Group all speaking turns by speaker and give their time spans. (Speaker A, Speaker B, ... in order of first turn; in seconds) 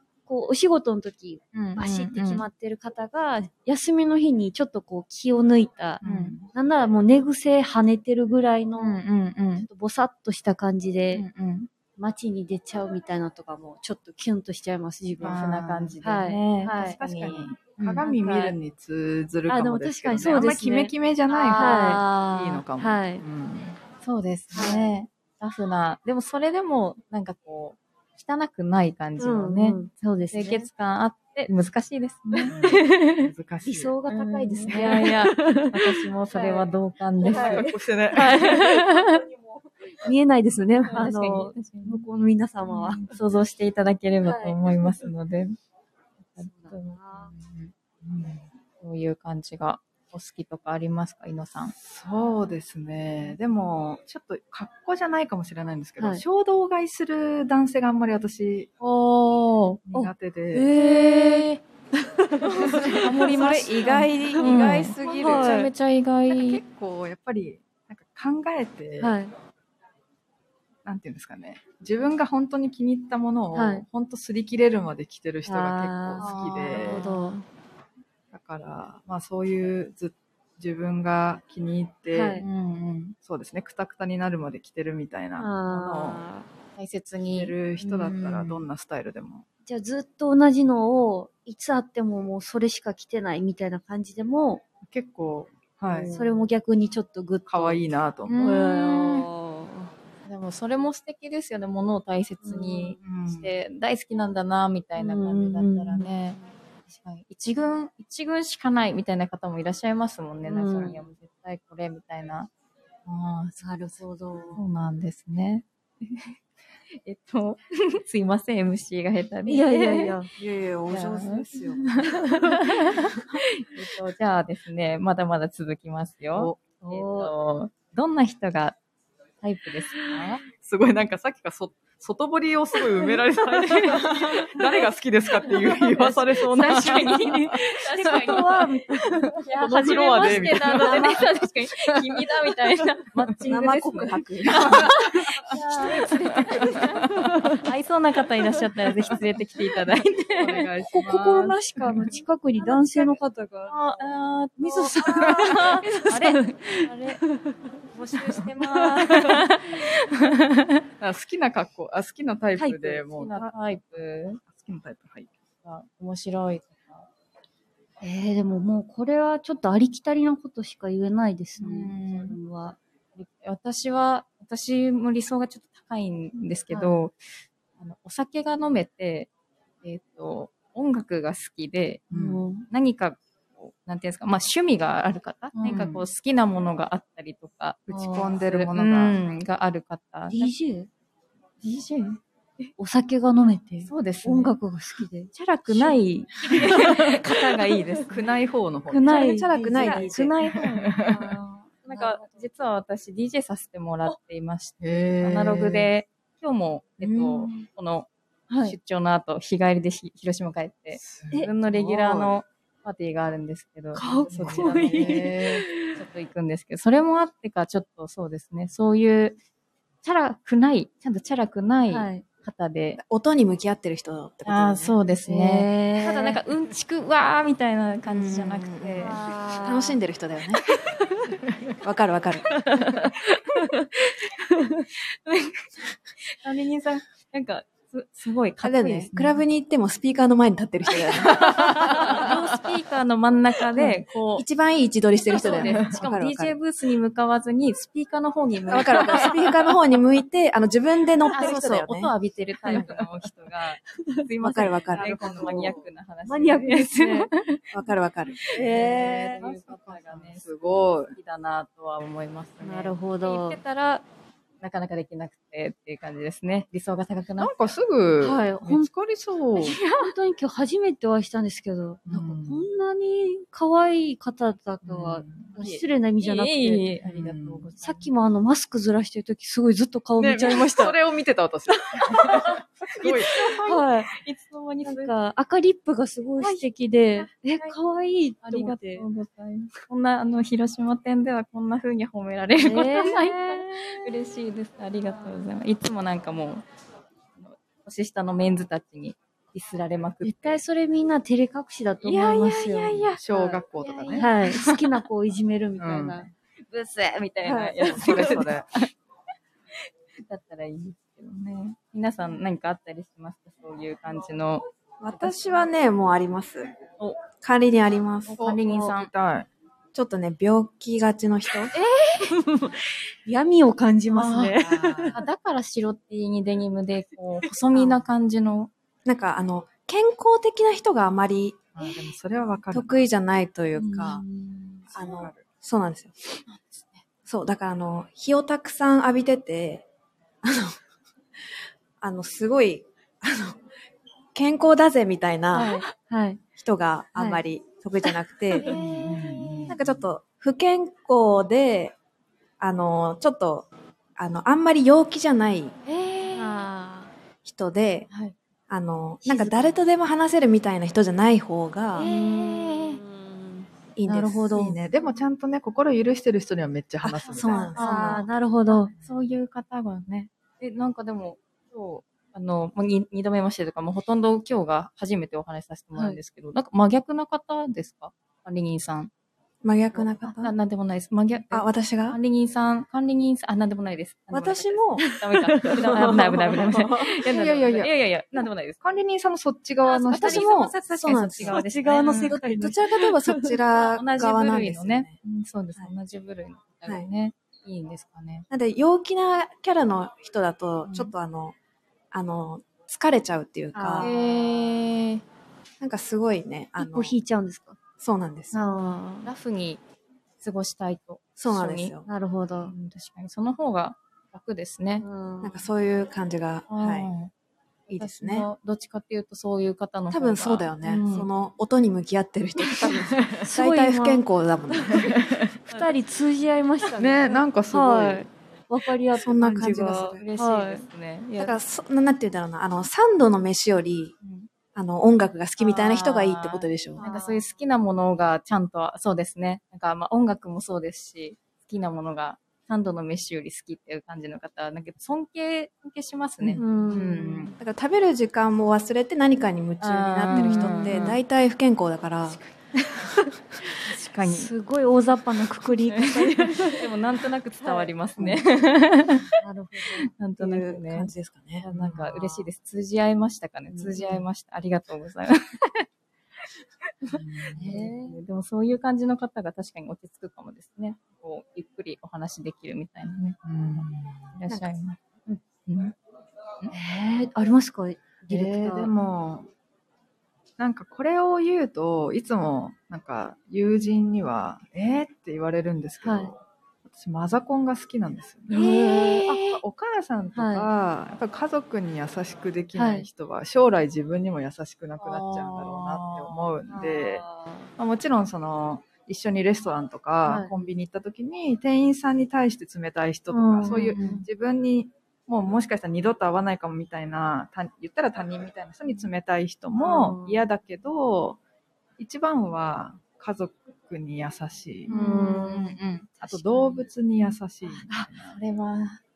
Speaker A: 0.3-9.0, 9.6-11.2, 12.0-15.4, 16.0-17.0, 18.0-18.4, 19.5-20.9, 21.5-22.0, 22.8-23.2, 24.5-24.9, 29.2-30.6, 33.6-36.7, 37.2-39.2, 40.0-43.0, 44.2-44.6, 46.5-47.3, 56.0-56.2, 59.9-61.5, 62.2-63.1, 65.0-65.7, 69.0-69.3, 73.5-73.8, 75.5-77.4, 82.1-82.5, 85.4-86.5, 89.7-94.6, 95.9-97.8, 98.4-99.9, 102.4-103.0, 105.0-106.5, 110.5-111.0, 113.6-114.6, 119.5-120.3, 122.2-122.5, 126.8-127.3, 130.0-130.4, 134.1-134.5, 135.4-136.1, 136.7-141.2, 144.8-147.7, 150.8-154.0, 154.6-157.6, 158.1-159.5, 162.6-163.5, 168.0-172.8, 176.7-177.0, 182.1-182.7, 185.5-186.0, 187.9-188.3, 190.3-190.9, 192.8-198.0, 198.9-202.5, 208.5-208.8, 213.9-216.0, 221.9-222.2, 225.2-226.4, 229.0-230.0, 232.7-234.9, 241.6-242.2, 252.7-253.0, 254.0-257.3, 258.5-259.4, 262.6-263.6, 268.2-268.9, 269.8-280.9, 281.8-282.6, 283.6-284.1, 284.8-289.0, 292.6-293.9, 300.2-303.1, 304.2-306.3, 307.4-308.4, 322.2-325.2, 333.8-334.3, 345.5-346.4, 347.1-347.4, 348.6-349.0, 356.3-357.1, 359.2-359.7, 362.0-364.8, 367.7-368.9, 385.0-386.2, 389.9-393.6, 403.7-404.4, 406.8-407.8, 408.5-409.3, 412.1-412.7, 415.0-415.6, 423.4-424.2, 425.7-430.8, 437.0-437.6, 446.6-447.6, 450.3-451.1, 452.8-453.3, 454.2-456.9, 457.6-458.4, 459.4-460.1, 463.7-463.9, 467.5-468.2, 476.7-478.9, 486.0-486.3, 488.5-489.4, 490.3-490.7, 492.7-493.1, 496.7-497.7, 500.2-500.7, 503.3-504.2, 509.8-510.4, 514.9-515.8, 517.7-518.1
Speaker B: 1.5-2.5, 6.0-6.4, 8.8-9.7, 11.1-11.7, 15.2-18.5, 21.3-22.6, 24.0-29.8, 30.3-33.3, 34.1-39.2, 40.9-42.0, 42.7-45.5, 46.3-47.7, 48.8-51.7, 58.8-59.9, 60.7-61.6, 62.6-66.6, 76.2-77.4, 82.4-83.1, 86.8-88.7, 98.3-99.2, 100.2-106.4, 106.9-112.5, 113.0-113.6, 114.5-116.3, 117.0-120.1, 120.9-128.8, 129.4-130.4, 133.5-134.4, 135.8-138.7, 139.4-147.0, 147.6-150.7, 151.9-157.2, 157.9-160.8, 163.0-164.4, 165.6-167.1, 171.6-172.4, 173.2-177.2, 177.8-179.3, 179.8-182.1, 182.7-190.5, 191.6-192.7, 193.8-194.5, 195.3-198.2, 199.7-200.7, 201.9-215.3, 215.8-219.4, 220.0-223.0, 224.4-229.2, 232.7-233.1, 235.2-235.7, 236.4-239.4, 241.8-244.4, 245.3-249.4, 251.3-257.6, 258.5-264.0, 264.6-267.8, 269.8-270.1, 275.6-278.1, 283.0-285.1, 286.4-287.8, 288.4-296.6, 297.4-300.6, 302.0-304.8, 306.7-308.9, 310.2-314.6, 318.3-319.1, 321.7-322.3, 324.1-328.7, 334.0-334.5, 336.5-337.0, 348.6-349.8, 355.9-356.5, 358.1-358.4, 361.9-363.0, 367.3-379.1, 380.4-388.8, 390.1-392.4, 393.7-398.4, 400.8-401.1, 404.0-405.2, 409.2-409.8, 410.4-411.9, 412.6-415.0, 416.7-417.3, 417.9-421.3, 430.1-431.6, 434.2-434.5, 435.6-447.5, 449.8-451.2, 453.8-454.5, 455.7-459.3, 460.2-465.9, 467.0-475.0, 475.6-475.9, 495.0-496.4, 503.7-504.2, 514.9-516.9, 518.3-519.0
Speaker C: 6.0-6.5, 15.2-16.0, 16.7-23.8, 32.4-34.0, 34.6-35.0, 37.2-38.5, 48.0-48.4, 51.8-58.7, 59.9-60.7, 62.7-65.7, 66.3-69.1, 70.8-77.0, 78.3-82.4, 83.2-86.2, 87.3-89.4, 94.8-96.3, 97.5-98.5, 103.0-103.5, 130.5-138.4, 139.0-141.2, 141.9-142.2, 144.5-144.9, 145.5-147.3, 150.3-152.1, 155.2-155.5, 161.0-163.3, 164.4-165.3, 182.1-182.5, 185.7-186.1, 187.9-189.2, 198.1-199.2, 200.4-201.3, 204.8-205.9, 211.0-212.3, 214.3-215.6, 245.6-246.0, 258.5-261.1, 267.4-269.8, 272.1-272.6, 274.8-275.6, 277.0-277.7, 280.2-283.4, 303.1-304.3, 305.8-306.3, 307.8-308.6, 318.4-319.5, 324.2-325.2, 331.8-333.0, 334.9-335.5, 348.7-350.1, 364.5-367.7, 387.2-387.9, 388.8-390.7, 422.8-423.4, 424.9-425.5, 427.0-428.3, 461.7-462.5, 467.1-467.7, 473.4-474.3, 478.3-479.5, 480.6-497.2, 497.8-511.4, 512.0-514.9, 516.2-518.4
Speaker D: 63.3-65.0, 120.3-122.1, 143.5-144.9, 199.1-200.3, 223.0-224.9, 228.1-230.6, 231.8-232.5, 238.6-242.3, 244.3-246.6, 248.7-252.1, 254.4-255.7, 257.7-258.5, 315.0-316.7, 317.4-318.4, 319.9-321.7, 329.0-331.6, 332.7-334.2, 334.9-336.4, 337.2-339.9, 340.4-340.8, 342.0-343.6, 344.3-345.8, 346.6-348.7, 349.7-351.9, 352.6-355.7, 357.4-358.1, 358.7-362.1, 363.9-364.7, 367.0-368.3, 379.6-380.5, 381.5-382.2, 384.3-385.0, 385.9-387.0, 390.2-391.6, 392.6-395.1, 398.5-401.6, 402.1-404.1, 405.8-407.1, 408.0-408.5, 411.4-412.1, 415.4-417.1, 417.9-418.5, 420.1-425.1, 429.2-430.2, 431.4-434.1, 434.7-437.0, 447.6-452.4, 460.4-461.6